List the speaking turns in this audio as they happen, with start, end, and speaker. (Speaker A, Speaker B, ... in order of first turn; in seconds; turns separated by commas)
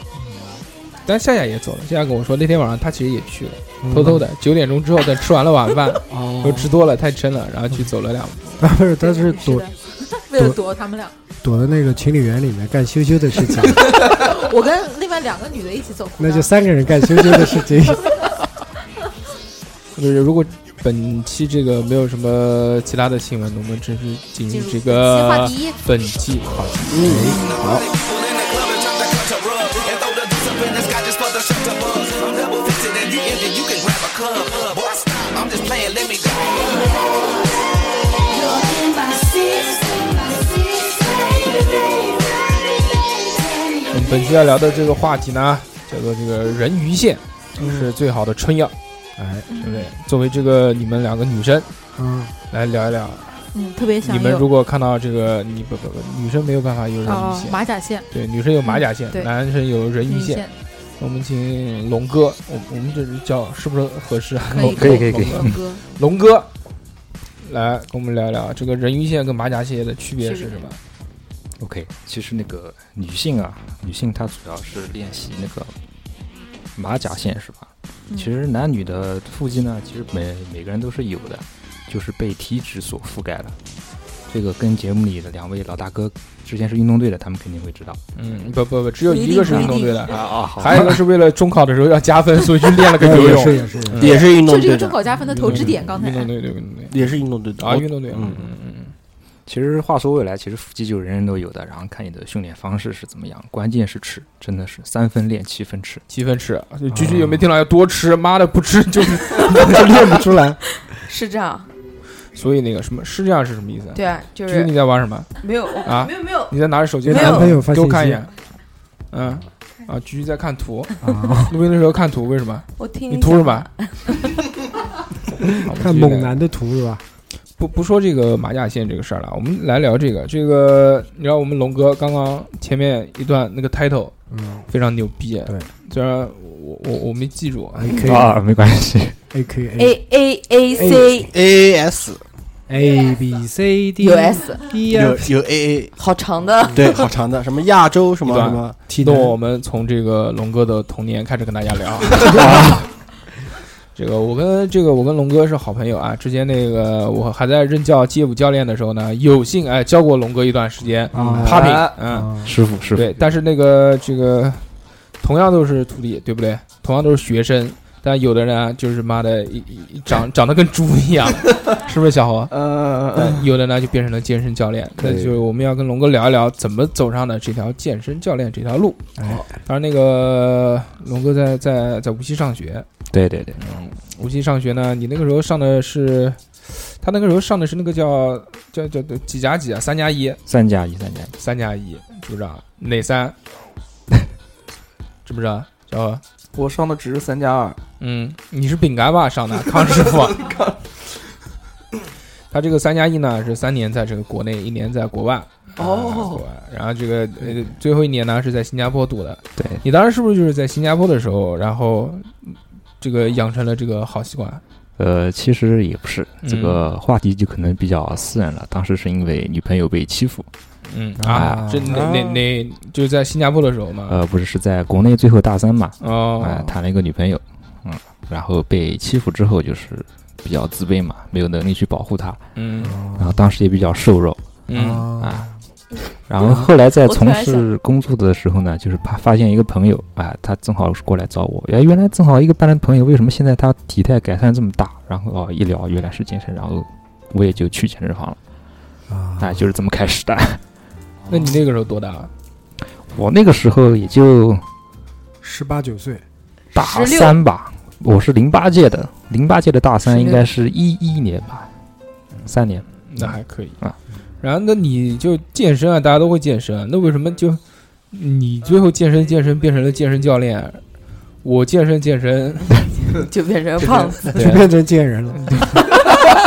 Speaker A: 1.1-8.6, Speaker B: 3.8-4.3, Speaker C: 6.1-6.7, Speaker B: 8.6-9.7, Speaker D: 9.0-11.2, Speaker B: 10.3-10.6, Speaker B: 11.4-13.9, Speaker D: 13.6-18.4, Speaker B: 16.2-18.2, Speaker A: 19.9-27.3, Speaker D: 24.5-25.8, Speaker E: 26.9-27.4, Speaker B: 27.0-27.9, Speaker A: 43.9-48.7, Speaker B: 49.2-49.5, Speaker D: 49.5-49.9, Speaker A: 49.6-51.7, Speaker B: 52.0-52.3, Speaker A: 52.5-53.3, Speaker D: 53.5-54.5, Speaker A: 54.0-60.5, Speaker D: 57.0-58.1, Speaker D: 58.6-59.3, Speaker D: 60.1-60.5, Speaker A: 61.0-66.5, Speaker D: 64.5-65.8, Speaker F: 64.6-65.6, Speaker A: 67.4-70.8, Speaker D: 70.2-70.6, Speaker F: 71.6-75.7, Speaker F: 76.7-83.6, Speaker F: 84.3-88.0, Speaker A: 88.2-94.3, Speaker G: 89.1-90.0, Speaker D: 89.2-90.1, Speaker F: 90.1-91.0, Speaker B: 92.9-94.2, Speaker E: 94.0-95.1, Speaker D: 94.2-96.3, Speaker A: 95.3-97.0, Speaker E: 96.9-98.5, Speaker A: 97.6-98.9, Speaker F: 99.5-106.0, Speaker A: 106.1-110.1, Speaker B: 106.9-107.5, Speaker B: 109.5-110.6, Speaker G: 110.9-111.7, Speaker A: 112.3-115.3, Speaker G: 114.0-114.7, Speaker G: 115.4-116.5, Speaker A: 115.8-118.3, Speaker B: 117.0-118.2, Speaker G: 117.1-117.6, Speaker A: 119.1-123.7, Speaker B: 121.0-121.6, Speaker G: 122.8-124.5, Speaker A: 125.5-126.4, Speaker B: 125.7-127.0, Speaker A: 127.6-134.1, Speaker B: 134.3-134.7, Speaker A: 134.7-138.1, Speaker B: 137.8-138.4, Speaker F: 138.0-139.2, Speaker B: 139.3-140.0, Speaker G: 139.8-141.3, Speaker B: 140.7-141.3, Speaker E: 141.3-142.2, Speaker B: 142.7-145.3, Speaker G: 144.0-144.7, Speaker E: 144.9-145.9, Speaker G: 146.0-147.1, Speaker E: 146.7-148.8, Speaker A: 148.3-152.8, Speaker B: 148.9-149.4, Speaker F: 152.2-152.9, Speaker B: 152.3-152.8, Speaker A: 153.9-162.3, Speaker B: 161.1-162.5, Speaker C: 161.2-162.0, Speaker F: 162.4-163.1, Speaker A: 162.9-164.7, Speaker A: 165.2-172.5, Speaker C: 172.5-173.5, Speaker A: 173.1-182.9, Speaker F: 175.0-175.4, Speaker B: 179.2-179.4, Speaker C: 179.2-179.5, Speaker F: 183.1-183.6, Speaker A: 183.6-190.4, Speaker F: 190.5-191.3, Speaker A: 191.4-193.3, Speaker A: 195.2-196.2, Speaker C: 196.5-197.8, Speaker A: 198.0-200.4, Speaker C: 199.7-201.0, Speaker A: 202.5-214.6, Speaker C: 205.8-206.5, Speaker F: 209.6-209.8, Speaker F: 215.0-220.5, Speaker A: 216.4-216.8, Speaker A: 220.9-224.2, Speaker B: 221.2-222.2, Speaker F: 221.3-221.7, Speaker F: 224.1-232.4, Speaker A: 226.0-226.8, Speaker A: 232.6-233.0, Speaker B: 232.8-233.4, Speaker F: 233.2-234.4, Speaker A: 234.7-235.1, Speaker B: 234.7-235.5, Speaker F: 235.2-235.5, Speaker F: 236.3-248.4, Speaker B: 236.4-236.7, Speaker G: 237.0-237.7, Speaker B: 249.1-249.6, Speaker F: 249.4-250.6, Speaker A: 251.3-252.3, Speaker F: 253.1-254.7, Speaker B: 255.4-256.2, Speaker G: 256.7-257.4, Speaker F: 256.7-261.7, Speaker F: 262.4-264.0, Speaker A: 263.0-263.8, Speaker A: 264.4-267.6, Speaker A: 268.1-270.8, Speaker A: 271.4-273.0, Speaker G: 273.1-274.4, Speaker C: 273.9-274.3, Speaker A: 274.3-274.7, Speaker B: 274.3-275.6, Speaker A: 275.3-276.0